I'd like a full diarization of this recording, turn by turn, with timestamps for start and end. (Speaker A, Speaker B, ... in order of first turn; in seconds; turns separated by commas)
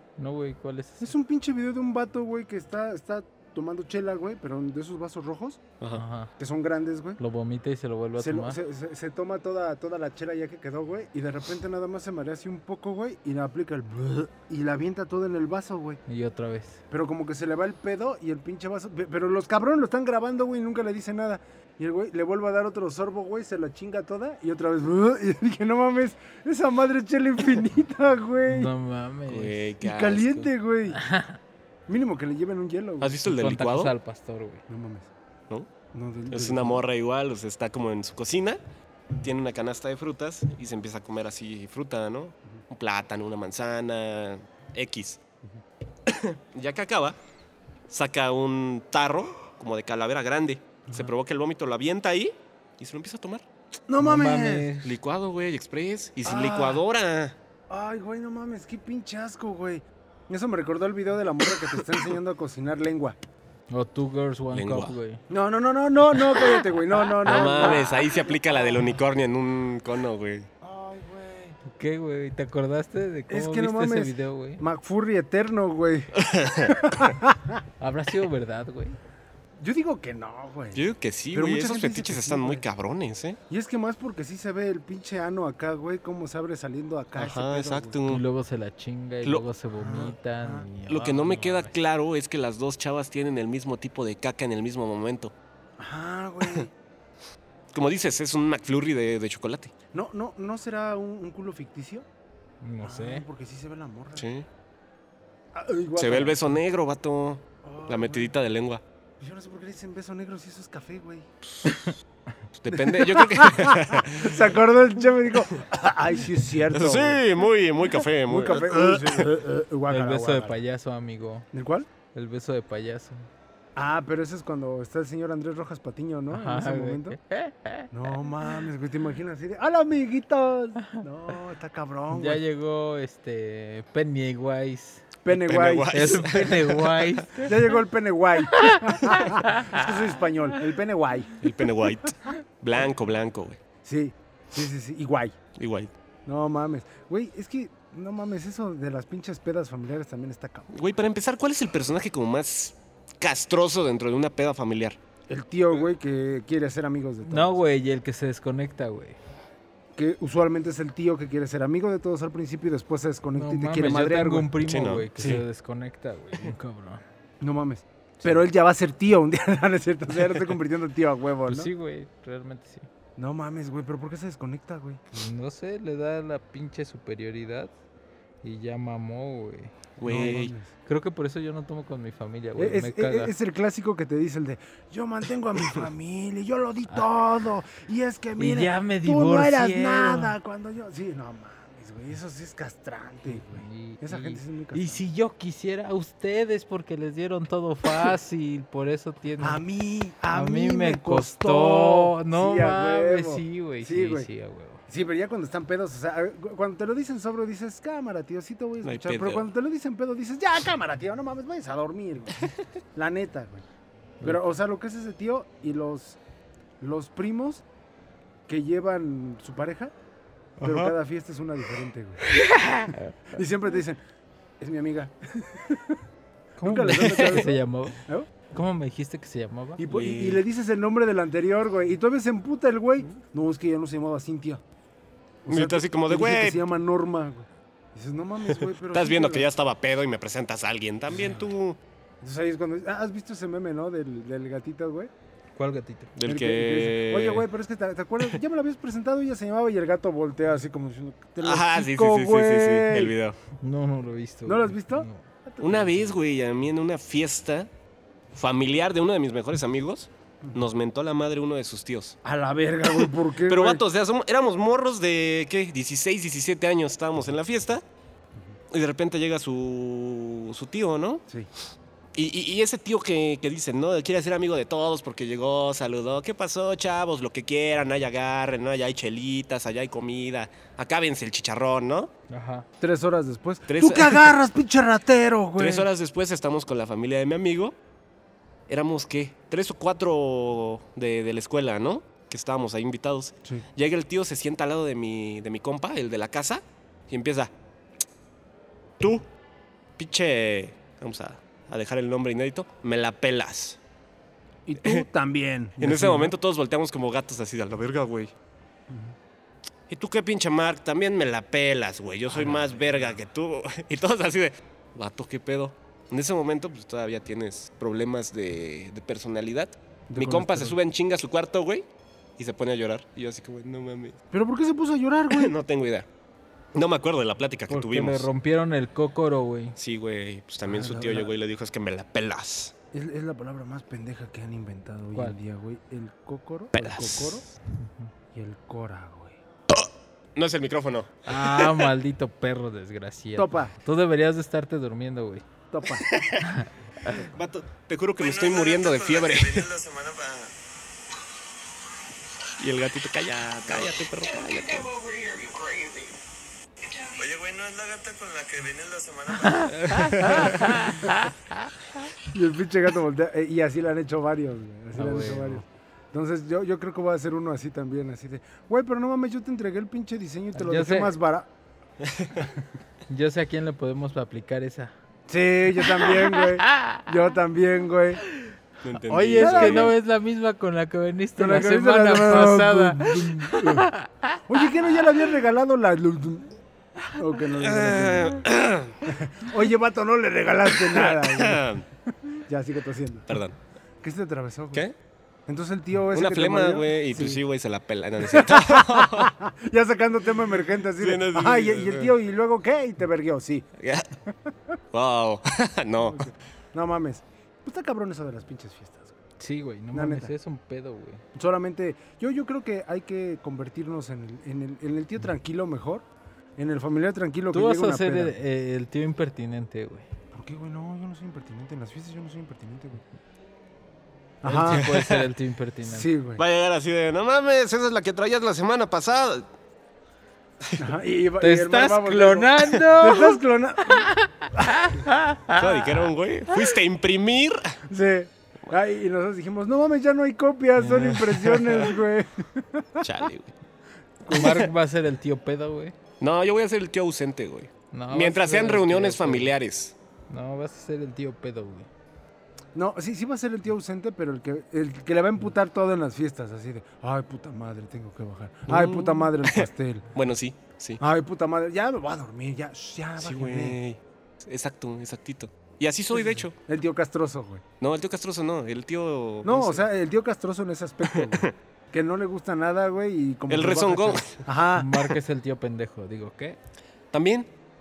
Speaker A: 0.2-1.1, Speaker B: 1.0-5.6, Speaker A: 5.9-6.3, Speaker B: 6.4-7.2, Speaker A: 7.2-8.6, Speaker B: 8.2-16.0, Speaker A: 16.1-16.8, Speaker B: 16.9-28.7, Speaker A: 28.5-29.6, Speaker C: 29.3-30.5, Speaker B: 29.8-31.0, Speaker A: 30.9-31.4, Speaker B: 31.9-33.3, Speaker C: 33.0-33.9, Speaker A: 33.2-34.6, Speaker B: 34.7-35.1, Speaker B: 35.9-36.8, Speaker C: 36.3-38.6, Speaker C: 39.2-45.2, Speaker C: 46.1-47.2, Speaker C: 47.9-53.4, Speaker B: 50.9-51.1, Speaker B: 53.9-54.7, Speaker A: 54.0-54.9, Speaker C: 54.8-57.3, Speaker B: 56.2-56.8, Speaker B: 57.7-63.2, Speaker A: 63.7-65.2, Speaker C: 64.5-64.9, Speaker B: 65.3-68.9, Speaker C: 67.1-70.5, Speaker A: 67.2-67.8, Speaker B: 70.6-71.6, Speaker A: 71.7-74.6, Speaker B: 73.3-76.1, Speaker C: 76.2-76.8, Speaker B: 76.7-77.6, Speaker A: 77.8-79.0, Speaker B: 79.6-82.6, Speaker C: 80.7-83.4, Speaker B: 83.5-88.0, Speaker C: 87.2-88.2, Speaker A: 88.0-91.7, Speaker B: 89.7-90.7, Speaker C: 90.9-95.3, Speaker B: 95.8-96.7, Speaker C: 97.7-99.7, Speaker B: 99.9-102.0, Speaker A: 102.6-103.2, Speaker B: 102.8-104.3, Speaker C: 104.2-104.5, Speaker B: 105.5-106.4, Speaker C: 106.0-108.8, Speaker B: 107.6-108.3, Speaker B: 109.2-111.3, Speaker C: 112.5-114.5, Speaker B: 112.7-117.2, Speaker C: 116.7-119.3, Speaker B: 118.2-120.6, Speaker A: 119.9-121.5, Speaker B: 121.5-121.9, Speaker A: 122.1-123.3, Speaker B: 123.8-127.2, Speaker A: 126.3-127.9, Speaker B: 127.9-132.4, Speaker A: 132.1-135.1, Speaker B: 135.2-136.4, Speaker C: 135.3-137.1, Speaker A: 135.9-137.5, Speaker B: 137.3-141.5, Speaker A: 138.6-139.7, Speaker C: 141.4-143.6, Speaker B: 143.8-145.3, Speaker C: 145.6-145.9, Speaker B: 146.2-150.7, Speaker C: 150.7-155.0, Speaker B: 155.3-157.6, Speaker A: 157.2-159.2, Speaker B: 159.9-164.6, Speaker A: 163.3-167.0, Speaker C: 164.6-165.4, Speaker B: 165.2-165.4, Speaker B: 167.4-171.7, Speaker A: 171.5-172.9, Speaker B: 173.2-175.0, Speaker A: 175.1-177.7, Speaker A: 178.4-183.3, Speaker C: 180.0-180.5, Speaker B: 180.1-180.7, Speaker B: 182.6-195.0, Speaker A: 188.4-190.3, Speaker A: 193.3-199.6, Speaker B: 199.4-204.3, Speaker A: 200.3-204.8, Speaker B: 204.9-213.6, Speaker C: 208.8-209.4, Speaker B: 214.2-216.2, Speaker B: 216.8-217.6, Speaker B: 218.5-219.9, Speaker C: 220.6-220.9, Speaker B: 220.6-222.2, Speaker A: 222.4-223.1, Speaker B: 223.3-224.0, Speaker B: 224.6-226.0, Speaker A: 226.6-228.0, Speaker B: 226.6-228.3, Speaker C: 227.0-227.4, Speaker A: 228.5-229.8, Speaker B: 229.8-234.6, Speaker C: 229.9-230.4, Speaker B: 235.4-239.5, Speaker C: 235.5-236.6, Speaker C: 238.9-241.8, Speaker B: 242.2-245.1, Speaker A: 245.6-246.1, Speaker C: 246.2-247.4, Speaker B: 246.2-253.2, Speaker C: 251.4-253.3, Speaker A: 253.6-255.2, Speaker B: 254.4-256.1, Speaker C: 255.6-257.7, Speaker C: 258.3-262.2, Speaker B: 262.2-263.8, Speaker C: 262.9-267.8, Speaker C: 268.7-271.2, Speaker C: 272.1-282.1, Speaker A: 282.3-282.7, Speaker B: 282.8-285.9, Speaker C: 283.7-284.3, Speaker C: 285.6-287.7, Speaker C: 288.7-297.5, Speaker C: 299.0-299.3, Speaker C: 300.0-303.8, Speaker B: 304.7-306.4, Speaker C: 305.8-308.3, Speaker B: 308.9-309.1, Speaker C: 309.9-321.8, Speaker B: 312.3-313.1, Speaker B: 320.1-320.8, Speaker C: 322.4-324.2, Speaker B: 324.3-325.6, Speaker C: 325.3-326.1, Speaker C: 326.7-328.3, Speaker A: 327.7-329.8, Speaker C: 329.8-332.7, Speaker B: 330.6-331.3, Speaker B: 332.9-337.4, Speaker C: 336.7-337.4, Speaker A: 337.8-338.1, Speaker B: 338.3-339.4, Speaker C: 339.7-341.9, Speaker A: 341.2-345.4, Speaker B: 343.4-343.7, Speaker B: 345.7-346.1, Speaker C: 346.1-346.4, Speaker A: 346.4-347.2, Speaker C: 347.2-349.7, Speaker D: 348.2-350.5, Speaker C: 352.6-354.9, Speaker D: 354.4-356.1, Speaker D: 356.9-360.3, Speaker C: 359.7-360.8, Speaker A: 360.3-360.9, Speaker B: 362.2-371.5, Speaker A: 364.9-365.6, Speaker A: 370.5-371.2, Speaker A: 373.1-374.9, Speaker B: 375.3-378.2, Speaker C: 378.8-379.9, Speaker A: 378.9-384.1, Speaker B: 379.4-379.9, Speaker B: 381.4-383.9, Speaker B: 384.5-386.5, Speaker B: 387.1-388.4, Speaker C: 387.6-389.0, Speaker B: 389.0-393.3, Speaker C: 390.8-391.8, Speaker C: 393.3-393.6, Speaker B: 394.0-394.8, Speaker B: 395.5-397.4, Speaker C: 396.1-399.3, Speaker B: 398.2-403.6, Speaker C: 401.0-402.1, Speaker C: 403.8-404.1, Speaker C: 404.9-406.3, Speaker B: 406.0-409.1, Speaker A: 409.4-411.2, Speaker B: 409.9-410.3, Speaker B: 411.3-416.0, Speaker B: 416.6-418.3, Speaker A: 417.5-420.1, Speaker B: 420.3-423.0, Speaker B: 424.4-424.9, Speaker A: 424.4-426.1, Speaker C: 424.7-425.3, Speaker B: 425.9-426.4, Speaker C: 426.4-429.4, Speaker B: 430.8-434.1, Speaker A: 431.4-433.4, Speaker A: 434.1-435.6, Speaker C: 435.5-437.8, Speaker B: 437.9-443.1, Speaker A: 440.8-441.1, Speaker C: 441.3-441.9, Speaker C: 443.0-443.5, Speaker B: 444.2-444.7, Speaker A: 444.3-445.9, Speaker C: 444.3-444.6, Speaker C: 446.2-449.9, Speaker A: 447.9-449.5, Speaker A: 450.3-451.9, Speaker B: 452.7-460.1, Speaker C: 458.7-461.0, Speaker B: 461.0-463.8, Speaker C: 463.2-466.5, Speaker B: 466.1-467.6, Speaker C: 467.8-469.8, Speaker B: 469.4-474.9, Speaker C: 471.1-471.5, Speaker C: 473.5-474.4, Speaker A: 474.8-476.6, Speaker C: 477.1-477.5